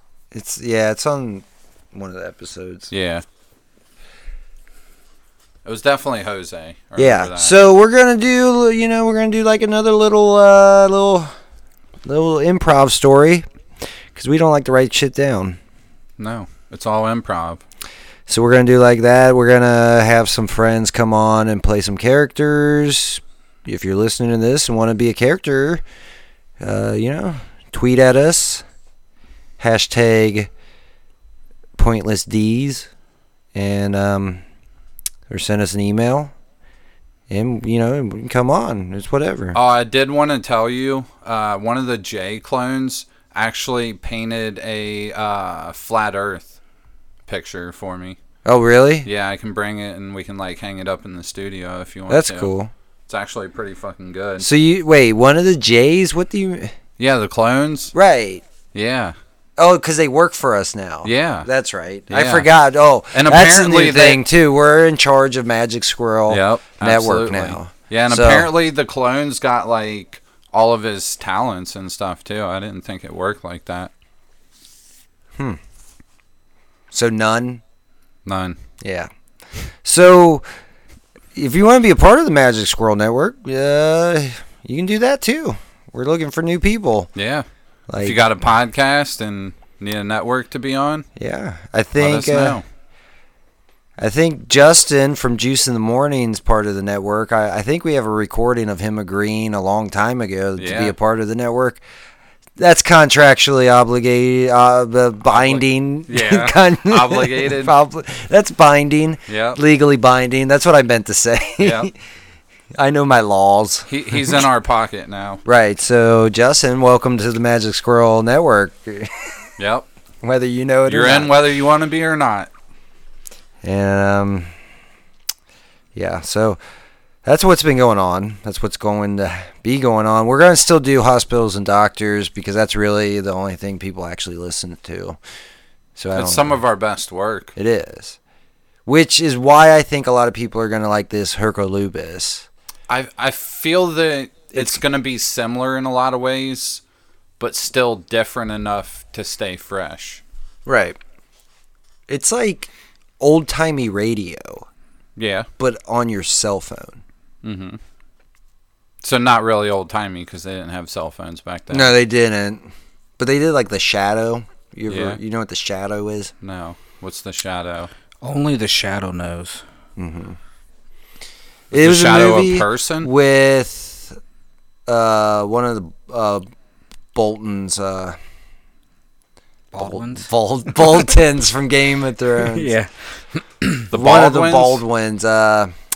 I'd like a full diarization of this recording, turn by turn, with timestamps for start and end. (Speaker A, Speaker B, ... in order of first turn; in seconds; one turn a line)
Speaker A: 0.3-2.9
Speaker B: 2.9-3.2
Speaker B: 5.6-7.5
Speaker A: 7.0-11.3
Speaker A: 12.0-13.4
Speaker A: 14.1-15.6
Speaker B: 16.2-17.6
Speaker A: 18.3-25.8
Speaker A: 26.6-28.6
Speaker A: 29.6-30.5
Speaker A: 31.8-32.9
Speaker A: 33.5-34.4
Speaker A: 35.3-36.3
Speaker A: 37.3-39.6
Speaker B: 39.5-46.5
Speaker B: 47.3-48.2
Speaker A: 48.4-49.1
Speaker B: 49.0-52.5
Speaker A: 52.1-52.7
Speaker B: 53.1-54.5
Speaker A: 54.4-56.7
Speaker B: 57.0-57.9
Speaker A: 57.9-58.4
Speaker B: 58.7-59.1
Speaker A: 59.6-68.5
Speaker B: 61.0-61.5
Speaker B: 62.1-62.5
Speaker B: 63.1-64.2
Speaker B: 66.3-73.9
Speaker A: 76.9-77.6
Speaker B: 78.2-78.6
Speaker A: 78.8-79.1
Speaker A: 79.8-80.4
Speaker A: 81.3-87.1
Speaker B: 87.1-87.4
Speaker A: 87.9-88.2
Speaker B: 88.0-91.0
Speaker A: 91.2-92.6
Speaker B: 92.0-92.6
Speaker A: 94.0-101.8
Speaker B: 100.6-100.9
Speaker A: 102.6-111.9
Speaker B: 105.2-107.7
Speaker B: 109.3-109.6
Speaker B: 111.6-111.9
Speaker A: 112.7-114.5
Speaker B: 113.9-115.4
Speaker A: 115.4-119.3
Speaker B: 119.6-119.8
Speaker A: 120.2-121.3
Speaker B: 120.8-122.5
Speaker A: 123.6-124.5
Speaker A: 125.9-126.6
Speaker A: 127.2-135.2
Speaker A: 135.9-136.6
Speaker B: 136.1-137.5
Speaker A: 137.6-138.2
Speaker A: 138.8-142.5
Speaker B: 142.9-146.8
Speaker A: 144.5-144.8
Speaker B: 147.4-150.2
Speaker A: 150.7-151.0
Speaker A: 152.1-154.7
Speaker B: 155.2-155.5
Speaker A: 155.6-157.0
Speaker B: 157.4-157.8
Speaker B: 159.0-161.9
Speaker A: 161.7-166.3
Speaker B: 164.9-165.2
Speaker B: 166.4-167.9
Speaker C: 168.2-169.6
Speaker A: 170.0-170.4
Speaker A: 171.7-174.2
Speaker B: 171.7-173.1
Speaker A: 174.9-176.4
Speaker A: 177.1-178.2
Speaker C: 179.7-180.3
Speaker A: 179.8-182.7
Speaker C: 182.4-182.9
Speaker B: 183.9-184.8
Speaker A: 183.9-185.7